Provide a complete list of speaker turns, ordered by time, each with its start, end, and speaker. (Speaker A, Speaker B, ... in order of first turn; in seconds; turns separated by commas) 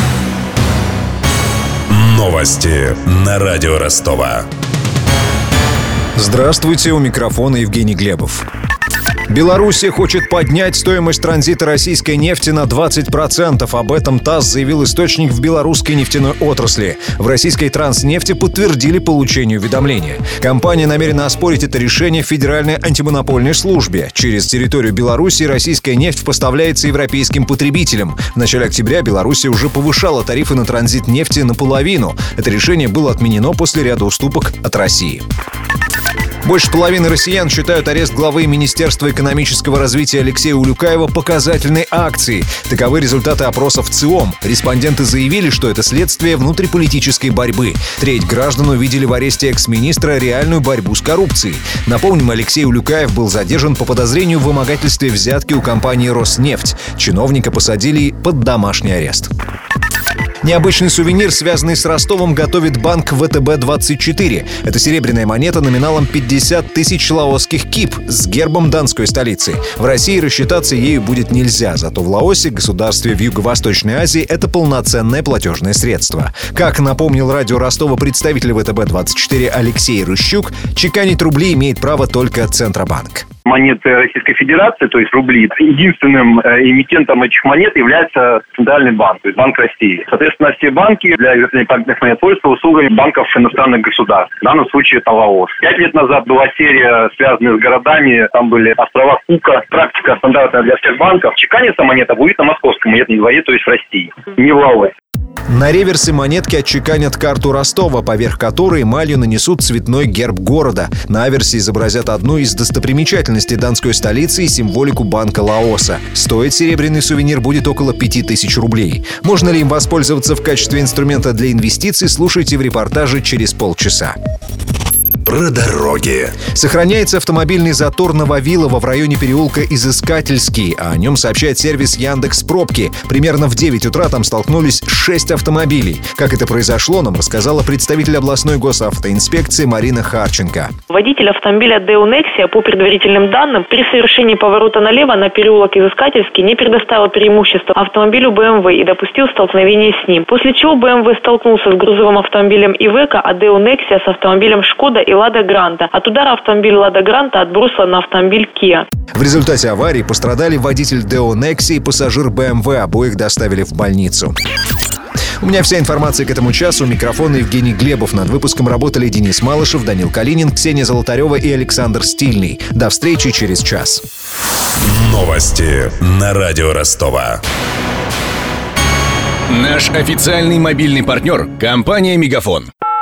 Speaker A: 1.9-4.4, Speaker B: 6.2-8.4, Speaker B: 9.3-35.2, Speaker B: 36.5-59.3, Speaker B: 60.4-83.2, Speaker C: 83.4-104.9, Speaker B: 105.5-124.1, Speaker A: 125.3-126.4, Speaker B: 126.4-140.7, Speaker D: 140.9-158.9, Speaker B: 159.2-164.3, Speaker B: 165.4-174.0, Speaker A: 174.8-177.4, Speaker E: 179.5-182.7